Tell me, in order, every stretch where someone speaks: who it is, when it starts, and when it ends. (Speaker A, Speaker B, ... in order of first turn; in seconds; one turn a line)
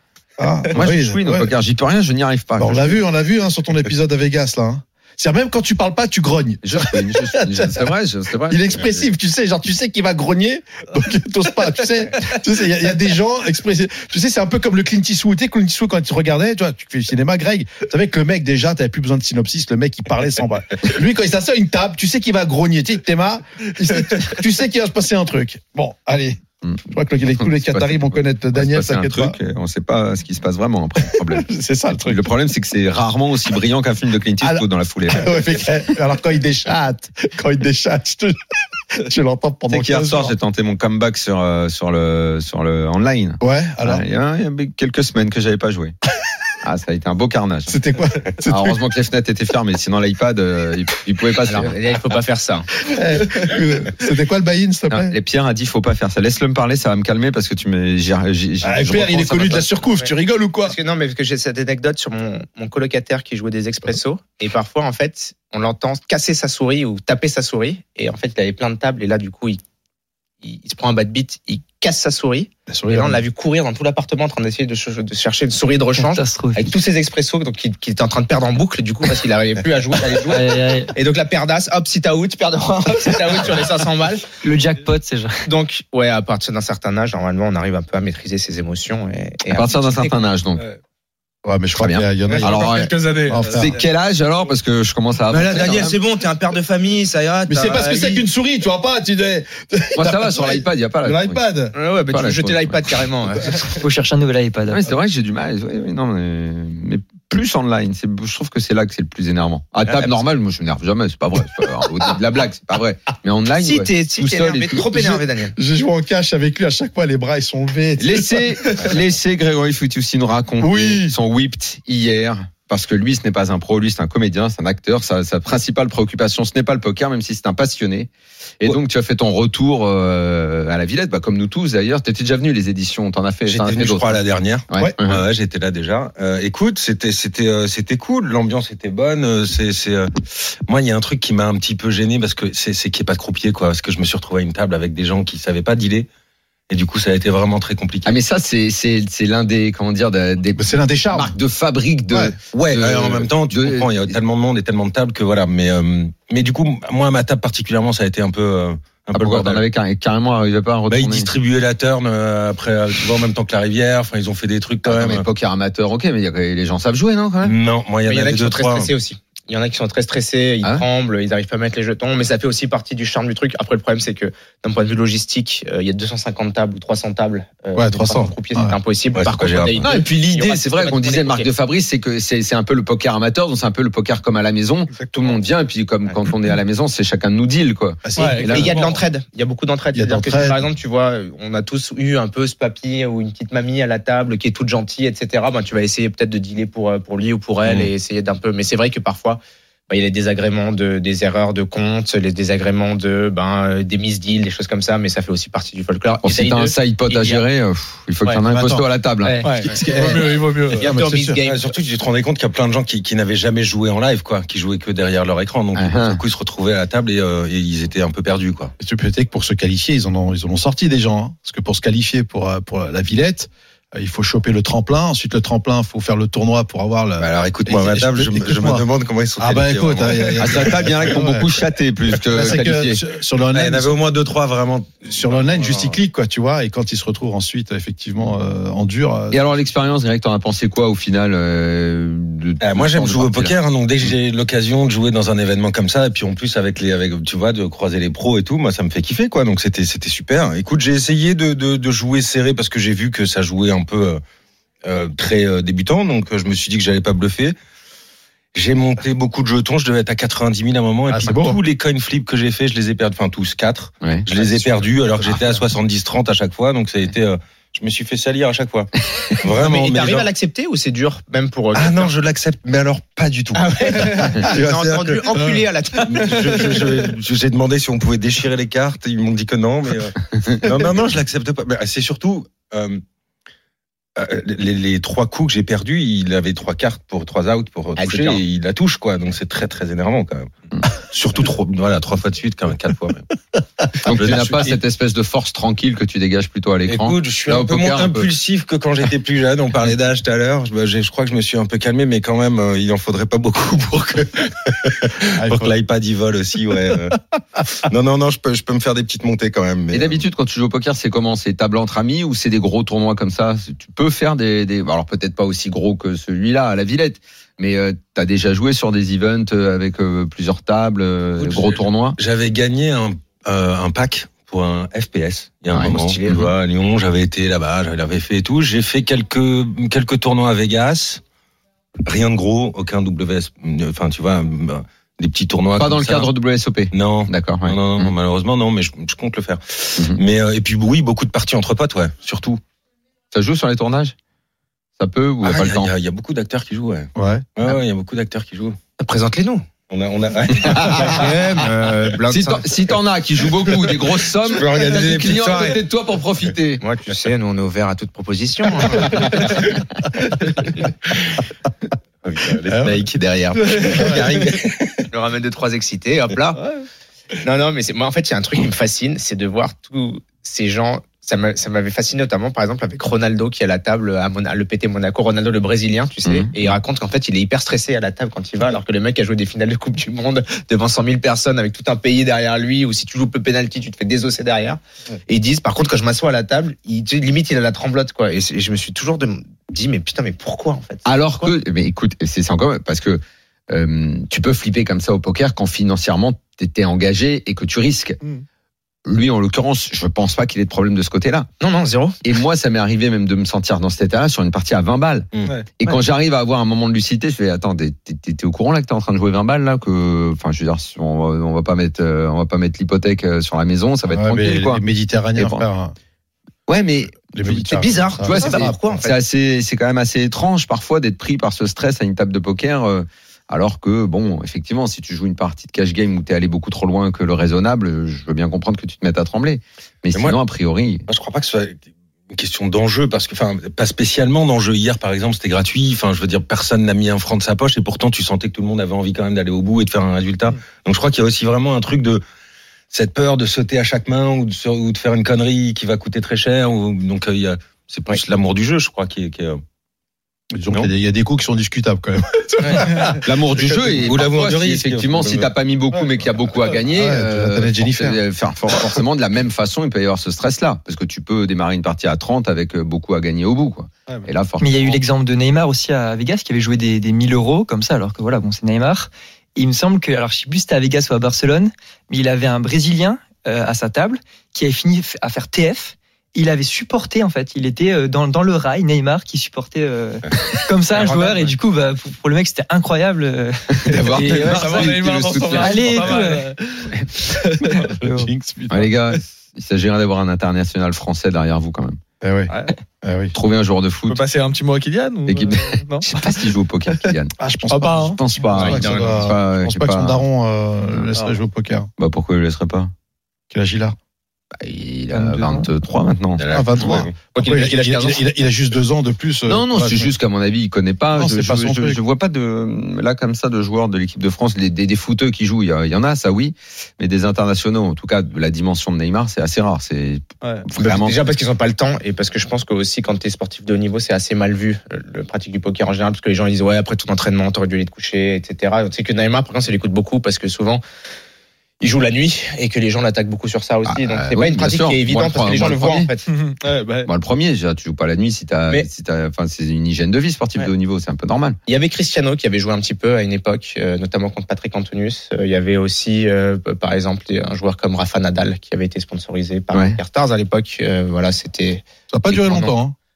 Speaker A: 0.4-1.6
Speaker B: 0.7-3.0
Speaker A: 2.6-7.9
Speaker B: 6.6-9.1
Speaker A: 8.5-29.4
Speaker B: 27.4-31.5
Speaker A: 31.1-32.3
Speaker B: 32.1-35.4
Speaker A: 34.4-38.4
Speaker A: 38.9-40.4
Speaker B: 39.7-46.0
Speaker A: 43.4-44.0
Speaker B: 46.6-47.8
Speaker A: 47.7-48.8
Speaker B: 48.5-51.8
Speaker C: 51.5-52.7
Speaker A: 52.8-55.1
Speaker B: 54.9-59.7
Speaker A: 58.6-60.8
Speaker C: 60.6-69.6
Speaker C: 70.4-84.3
Speaker A: 72.7-73.2
Speaker D: 76.0-76.8
Speaker D: 80.3-80.9
Speaker D: 84.4-85.4
Speaker C: 85.5-90.3
Speaker B: 89.5-90.6
Speaker A: 91.5-93.8
Speaker B: 91.8-96.0
Speaker E: 92.3-93.7
Speaker C: 95.3-98.2
Speaker A: 97.5-101.7
Speaker B: 100.0-101.4
Speaker C: 101.7-103.6
Speaker B: 102.1-103.0
Speaker D: 103.7-104.8
Speaker B: 104.7-114.9
Speaker C: 113.6-115.6
Speaker A: 114.9-119.1
Speaker B: 118.0-128.1
Speaker A: 120.6-121.2
Speaker B: 128.6-135.2
Speaker F: 133.5-146.1
Speaker F: 146.7-148.2
Speaker B: 148.1-154.2
Speaker A: 150.6-151.3
Speaker A: 152.1-152.3
Speaker F: 152.5-159.6
Speaker B: 159.1-161.3
Speaker F: 160.9-165.3
Speaker B: 164.9-167.6
Speaker F: 167.4-168.9
Speaker C: 168.1-181.5
Speaker A: 177.8-178.8
Speaker F: 179.2-179.9
Speaker B: 179.8-188.8
Speaker A: 188.1-188.4
Speaker E: 188.2-189.0
Speaker C: 188.2-207.5
Speaker A: 189.9-190.6
Speaker B: 206.2-209.5
Speaker A: 208.5-208.9
Speaker C: 209.2-211.7
Speaker E: 209.4-210.9
Speaker A: 209.8-211.4
Speaker F: 211.4-218.7
Speaker B: 215.8-216.2
Speaker A: 218.8-228.8
Speaker F: 227.2-231.2
Speaker A: 229.4-233.9
Speaker B: 230.4-233.0
Speaker F: 233.5-236.0
Speaker A: 235.1-239.4
Speaker B: 239.3-243.5
Speaker F: 242.6-254.2
Speaker F: 254.8-257.6
Speaker F: 258.5-270.3
Speaker A: 261.1-261.6
Speaker C: 264.3-265.4
Speaker C: 269.6-272.1
Speaker F: 271.7-275.3
Speaker C: 273.5-276.7
Speaker F: 276.1-283.0
Speaker F: 284.2-293.3
Speaker C: 288.0-288.4
Speaker F: 294.0-294.8
Speaker B: 294.0-298.3
Speaker F: 296.9-310.2
Speaker A: 305.3-305.7
Speaker B: 309.9-322.2
Speaker F: 321.4-331.2
Speaker B: 325.7-326.5
Speaker C: 325.8-326.5
Speaker F: 332.1-336.3
Speaker B: 335.8-338.1
Speaker F: 336.9-342.6
Speaker B: 343.3-344.1
Speaker B: 345.0-345.9
Speaker F: 345.4-348.8
Speaker A: 347.2-347.5
Speaker C: 349.0-349.7
Speaker F: 349.9-351.4
Speaker B: 350.7-351.2
Speaker C: 350.9-352.8
Speaker B: 352.3-356.8
Speaker F: 354.4-355.8
Speaker C: 356.8-359.6
Speaker F: 362.2-365.1
Speaker A: 362.7-363.0
Speaker E: 363.7-363.9
Speaker A: 363.9-364.2
Speaker C: 365.1-366.6
Speaker E: 366.6-366.9
Speaker C: 367.4-391.5
Speaker B: 376.3-376.5
Speaker B: 391.1-398.2
Speaker B: 399.1-401.5
Speaker C: 401.6-402.2
Speaker B: 402.2-414.8
Speaker A: 414.1-415.9
Speaker B: 415.4-415.6
Speaker B: 416.7-431.1
Speaker A: 417.3-418.8
Speaker C: 417.8-419.2
Speaker F: 431.1-431.8
Speaker F: 432.3-442.2
Speaker F: 442.9-449.6
Speaker A: 450.5-453.2
Speaker F: 452.7-455.5
Speaker B: 453.1-465.0
Speaker A: 456.9-458.2
Speaker D: 464.6-484.9
Speaker E: 481.0-481.5
Speaker B: 483.8-486.2
Speaker E: 484.1-487.9
Speaker D: 485.5-486.5
Speaker A: 487.7-488.9
Speaker B: 488.7-492.0
Speaker A: 492.2-493.3
Speaker E: 492.5-492.8
Speaker B: 493.3-494.2
Speaker E: 494.1-496.1
Speaker B: 495.3-497.3
Speaker A: 497.4-501.9
Speaker E: 497.7-498.2
Speaker B: 498.1-500.2
Speaker C: 498.5-499.3
Speaker B: 502.0-502.9
Speaker A: 503.5-504.0
Speaker B: 504.6-507.0
Speaker D: 505.1-505.7
Speaker F: 506.4-507.1
Speaker A: 506.5-510.1
Speaker C: 507.3-508.2
Speaker B: 509.5-521.2
Speaker A: 511.1-512.0
Speaker E: 520.4-520.7
Speaker C: 520.8-530.8
Speaker C: 531.8-536.2
Speaker B: 533.9-536.1
Speaker E: 536.3-537.1
Speaker B: 537.1-541.6
Speaker C: 541.7-552.7
Speaker B: 549.7-550.0
Speaker A: 552.1-553.0